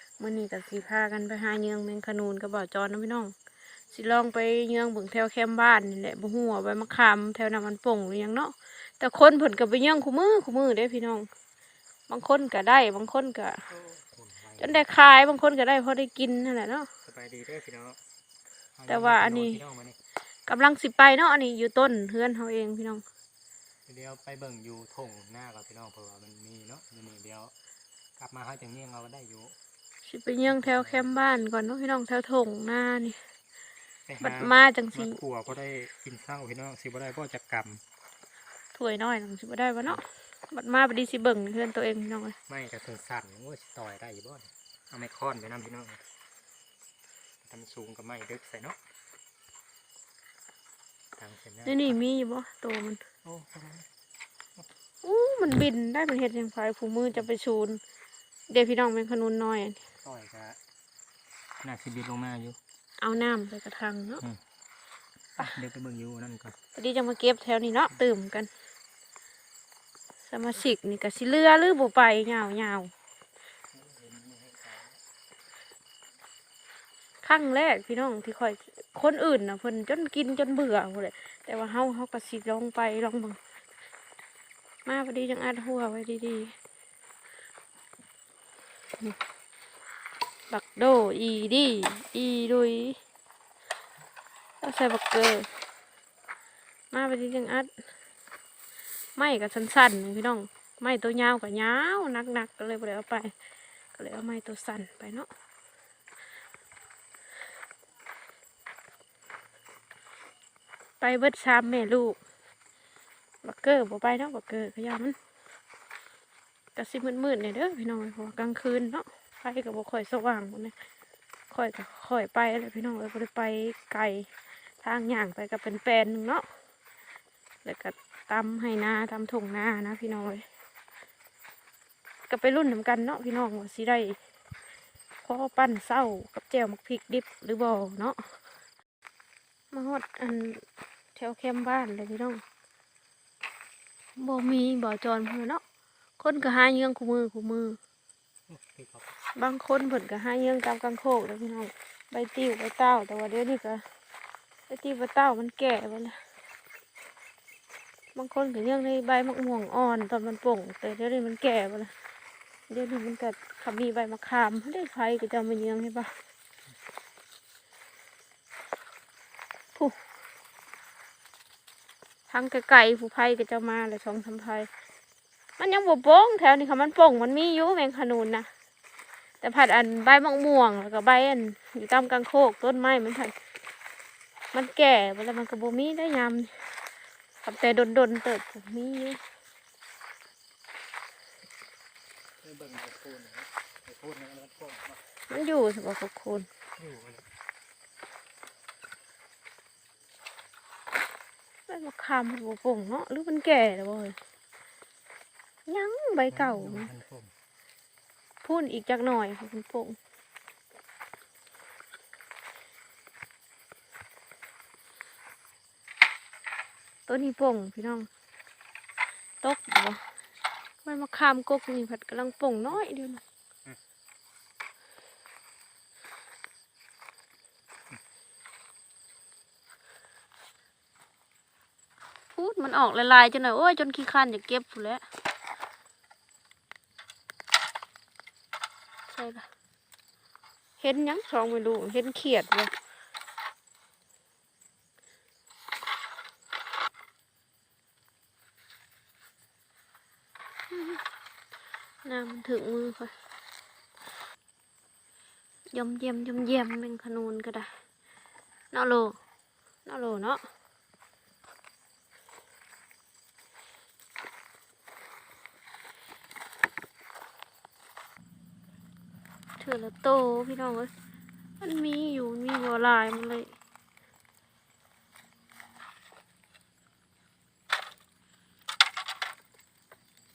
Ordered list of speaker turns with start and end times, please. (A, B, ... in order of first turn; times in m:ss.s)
0:00.2-0:03.3 A
0:03.9-0:11.3 A
0:12.1-0:13.6 A
0:13.7-0:14.8 B
0:14.6-0:16.9 A
0:17.0-0:18.0 B
0:18.8-0:20.0 B
0:18.9-0:19.6 A
0:20.5-0:23.0 A
0:23.8-0:27.5 B
0:28.2-0:29.5 B
0:30.0-0:33.2 A
0:30.5-0:31.1 B
0:34.1-0:37.8 B
0:34.2-0:35.2 A
0:38.7-0:42.4 A
0:42.5-0:46.0 B
0:47.4-0:48.8 B
0:51.2-0:52.0 B
0:51.6-0:53.0 A
0:53.2-0:53.9 B
0:55.0-0:57.8 A
0:58.5-0:59.8 A
1:00.0-1:00.6 B
1:01.6-1:02.6 B
1:03.0-1:04.2 A
1:05.4-1:06.6 B
1:06.8-1:08.5 A
1:10.3-1:12.9 A
1:13.7-1:15.0 B
1:17.2-1:23.4 A
1:24.9-1:26.5 A
1:30.5-1:33.0 A
1:34.6-1:35.5 A
1:36.9-1:37.7 A
1:39.2-1:43.3 A
1:43.9-1:45.3 A
1:51.0-1:52.2 A
1:53.4-1:55.2 A
1:56.8-2:00.7 A
2:01.5-2:04.3 A
2:04.8-2:06.4 A
2:07.6-2:10.4 A
2:12.3-2:14.2 A
2:15.2-2:18.2 A
2:19.7-2:20.6 A
2:21.2-2:22.4 A
2:24.2-2:25.6 A
2:26.2-2:27.8 A
2:28.5-2:29.2 B
2:29.4-2:33.8 A
2:34.7-2:36.2 A
2:38.2-2:41.9 A
2:42.7-2:46.1 A
2:52.3-2:54.7 A
2:55.6-2:58.5 A
2:59.4-3:03.3 A
3:04.5-3:06.6 A
3:07.4-3:09.2 A
3:12.4-3:15.0 B
3:15.3-3:16.5 A
3:16.8-3:17.3 B
3:21.7-3:24.2 A
3:25.7-3:26.9 A
3:26.3-3:27.3 B
3:28.4-3:30.0 A
3:37.1-3:38.1 A
3:39.4-3:40.0 A
3:40.8-3:43.2 A
3:52.3-3:55.0 A
3:59.1-3:59.5 A
4:00.8-4:02.7 A
4:10.7-4:11.0 A
4:12.0-4:13.1 A
4:15.7-4:17.7 A
4:18.7-4:19.2 A
4:19.8-4:20.4 A
4:29.6-4:30.9 A
4:31.6-4:33.5 A